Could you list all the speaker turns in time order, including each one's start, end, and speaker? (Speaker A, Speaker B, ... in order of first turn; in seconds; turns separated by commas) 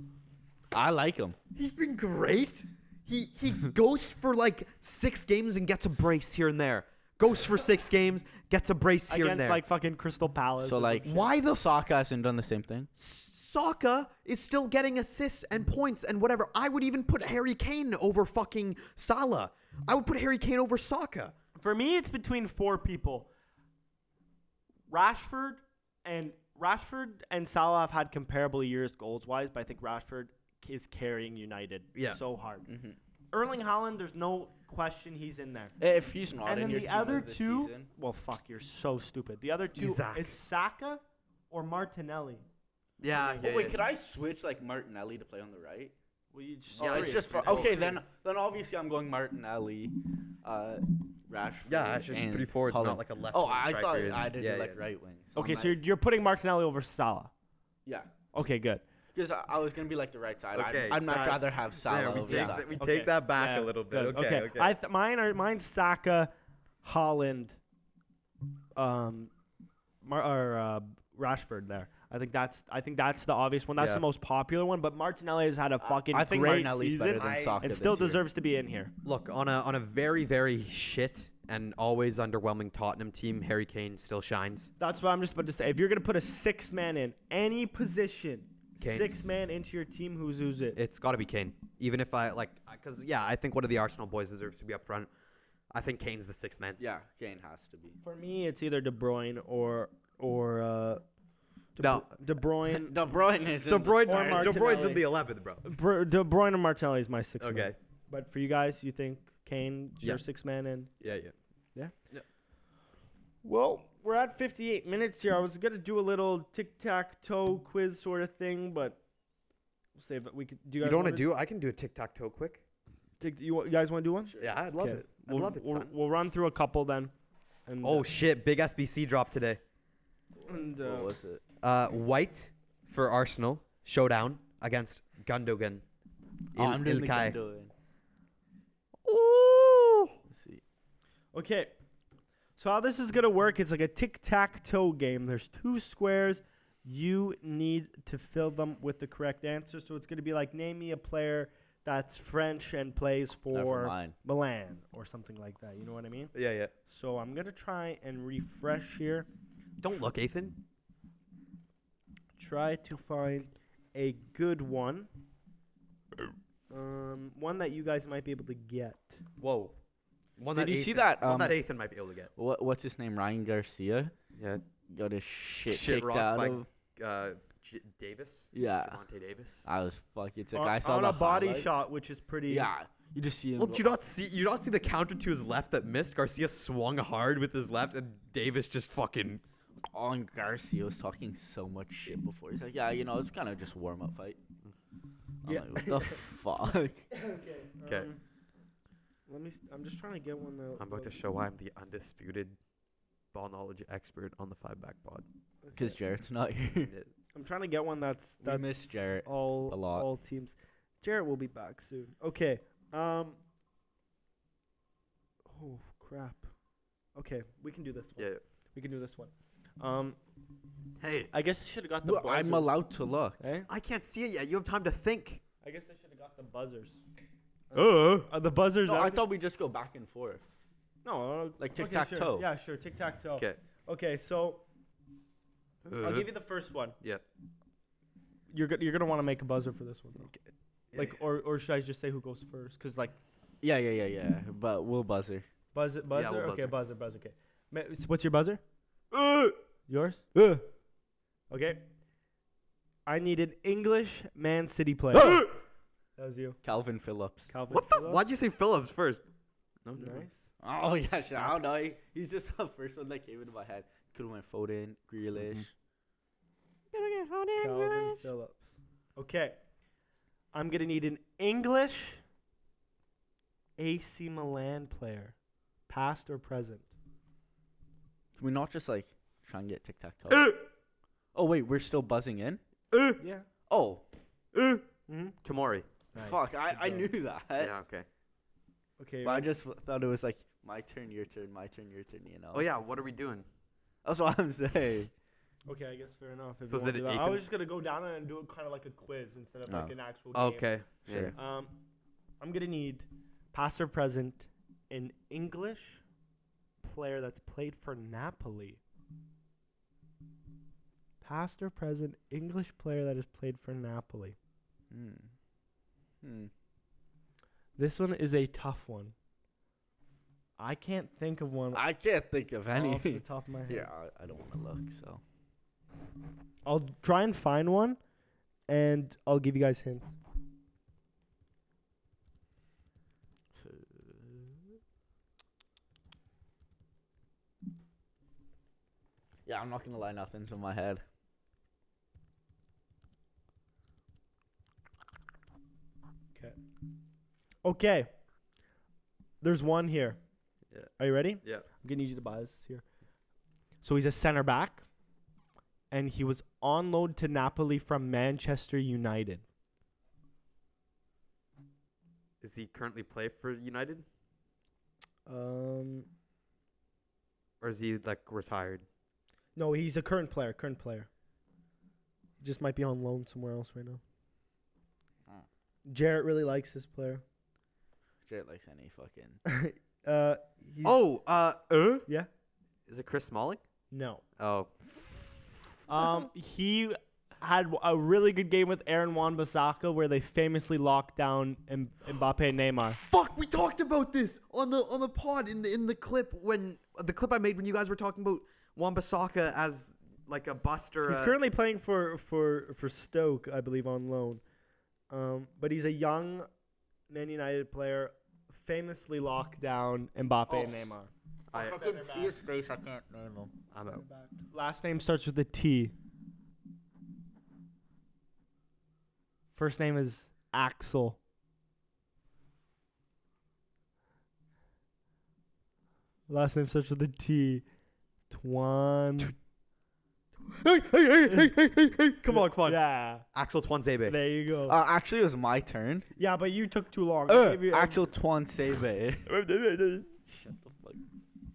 Speaker A: 0.7-1.4, Speaker B: 1.5-9.6, Speaker C: 9.1-11.3, Speaker A: 10.6-12.9, Speaker B: 11.0-11.8, Speaker B: 12.9-21.3, Speaker C: 21.6-23.3, Speaker C: 24.9-32.7, Speaker A: 32.7-33.0, Speaker C: 33.3-35.7, Speaker A: 35.8-37.9, Speaker C: 36.4-42.4, Speaker B: 39.8-40.3, Speaker B: 43.0-43.8, Speaker A: 43.1-45.9, Speaker C: 46.3-48.0, Speaker A: 46.8-55.7, Speaker B: 46.8-47.8, Speaker B: 51.6-54.8, Speaker C: 55.3-57.3, Speaker A: 57.9-58.1, Speaker C: 58.3-58.8, Speaker A: 59.1-62.8, Speaker B: 60.5-64.8, Speaker C: 62.3-66.3, Speaker C: 66.8-67.6, Speaker C: 68.8-69.3, Speaker C: 70.0-78.9, Speaker B: 73.8-74.0, Speaker A: 75.8-78.2, Speaker B: 77.2-77.6, Speaker B: 79.0-84.7, Speaker C: 84.8-90.8, Speaker B: 88.8-89.1, Speaker B: 90.7-95.1, Speaker B: 95.7-96.8, Speaker A: 96.8-98.0, Speaker C: 98.0-101.0, Speaker C: 101.8-102.9, Speaker B: 101.8-102.1, Speaker A: 102.7-104.8, Speaker B: 103.7-105.6, Speaker C: 104.0-105.0, Speaker C: 105.6-110.9, Speaker B: 107.4-107.7, Speaker B: 111.0-111.3, Speaker C: 113.4-119.0, Speaker C: 120.0-121.3, Speaker B: 120.8-122.6, Speaker C: 123.2-127.1, Speaker B: 124.4-125.9, Speaker C: 127.7-128.1, Speaker B: 127.8-129.6, Speaker A: 130.4-131.4, Speaker C: 130.4-131.1, Speaker B: 131.6-135.8, Speaker B: 136.5-137.4, Speaker A: 136.5-137.7, Speaker B: 139.0-140.2, Speaker A: 140.3-140.6, Speaker C: 141.3-141.8, Speaker C: 142.6-156.3, Speaker A: 153.5-154.1, Speaker B: 156.3-156.7, Speaker C: 156.8-159.3, Speaker B: 159.8-160.6, Speaker C: 162.4-165.1, Speaker C: 166.7-169.2, Speaker B: 169.4-169.8, Speaker B: 170.4-172.3, Speaker A: 170.5-171.6, Speaker A: 172.3-174.1, Speaker B: 174.3-174.6, Speaker A: 174.9-176.7, Speaker B: 175.7-179.7, Speaker A: 178.5-179.0, Speaker A: 179.6-181.8, Speaker C: 180.5-182.7, Speaker A: 182.5-183.9, Speaker B: 183.6-189.4, Speaker A: 189.9-194.4, Speaker A: 195.4-197.1, Speaker C: 195.4-196.2, Speaker C: 197.1-198.2, Speaker C: 199.3-201.2, Speaker B: 200.8-202.6, Speaker B: 203.3-205.2, Speaker C: 205.6-206.0, Speaker A: 205.7-206.9, Speaker C: 207.3-213.4, Speaker A: 208.4-210.1, Speaker C: 215.5-216.5, Speaker C: 217.2-220.2, Speaker B: 218.2-218.4, Speaker B: 221.0-221.3, Speaker C: 221.3-222.8, Speaker A: 222.0-223.4, Speaker C: 223.4-223.7, Speaker B: 223.7-225.4, Speaker C: 225.6-227.0, Speaker B: 227.7-228.3, Speaker C: 227.7-229.2, Speaker A: 228.8-230.4, Speaker C: 231.0-234.6, Speaker A: 231.6-232.5, Speaker B: 235.8-236.3, Speaker C: 236.0-237.0, Speaker C: 238.5-240.3, Speaker C: 240.9-243.2, Speaker A: 243.6-245.4, Speaker C: 245.7-248.6, Speaker B: 246.1-246.8, Speaker C: 249.9-250.3, Speaker C: 251.5-251.9, Speaker C: 253.1-255.5, Speaker A: 255.1-255.5, Speaker C: 256.2-256.6, Speaker A: 256.6-257.5, Speaker C: 257.5-258.2, Speaker B: 257.7-259.2, Speaker B: 259.8-260.3, Speaker C: 259.9-260.4, Speaker A: 260.6-265.7, Speaker B: 266.9-268.2, Speaker C: 267.6-269.6, Speaker C: 270.5-272.2, Speaker C: 273.8-275.3, Speaker C: 275.9-276.9, Speaker A: 278.4-280.5, Speaker B: 280.3-280.6, Speaker A: 281.3-282.6, Speaker B: 282.9-283.2, Speaker C: 283.2-283.5, Speaker A: 283.7-284.0, Speaker B: 284.5-284.8, Speaker C: 285.1-285.4, Speaker B: 285.4-285.9, Speaker C: 286.1-287.1, Speaker A: 286.1-287.7, Speaker B: 287.6-288.1, Speaker C: 289.0-289.5, Speaker A: 289.2-292.6, Speaker B: 292.5-293.4, Speaker A: 294.0-295.1, Speaker C: 295.7-300.7, Speaker B: 296.6-297.4, Speaker A: 299.7-299.9, Speaker B: 300.3-301.3, Speaker A: 301.1-301.3, Speaker C: 301.3-301.7, Speaker C: 302.4-306.0, Speaker C: 306.8-308.8, Speaker C: 311.2-314.4, Speaker A: 314.9-315.3, Speaker A: 316.2-316.5, Speaker C: 317.8-319.1, Speaker C: 320.6-321.8, Speaker A: 321.7-325.2, Speaker C: 322.7-323.9, Speaker C: 326.6-328.0, Speaker C: 328.7-330.1, Speaker A: 333.6-334.5, Speaker A: 339.4-341.0, Speaker C: 347.6-348.1, Speaker C: 349.4-350.2, Speaker C: 351.0-352.8, Speaker C: 353.8-354.9, Speaker C: 355.9-359.4, Speaker B: 362.4-364.1, Speaker C: 365.2-366.1, Speaker B: 367.6-368.9, Speaker C: 369.6-371.1, Speaker C: 372.4-374.0, Speaker C: 375.9-377.2, Speaker A: 378.2-379.4, Speaker C: 379.4-381.0, Speaker B: 380.8-382.1, Speaker B: 382.9-383.6, Speaker C: 383.9-384.2, Speaker B: 384.4-384.7, Speaker C: 385.9-393.0, Speaker B: 392.8-401.3, Speaker C: 401.0-404.4, Speaker C: 405.1-406.5, Speaker C: 407.1-412.4, Speaker A: 410.5-410.8, Speaker B: 411.5-411.9, Speaker A: 411.5-413.5, Speaker B: 413.7-414.0, Speaker C: 413.8-415.9, Speaker C: 419.5-421.2, Speaker C: 426.3-427.6, Speaker C: 428.3-429.3, Speaker B: 430.5-432.8, Speaker C: 432.3-433.2, Speaker B: 433.3-434.1, Speaker C: 434.1-434.8, Speaker A: 434.7-436.1, Speaker C: 436.2-438.1, Speaker A: 437.3-439.3, Speaker B: 439.3-440.1, Speaker A: 440.3-441.0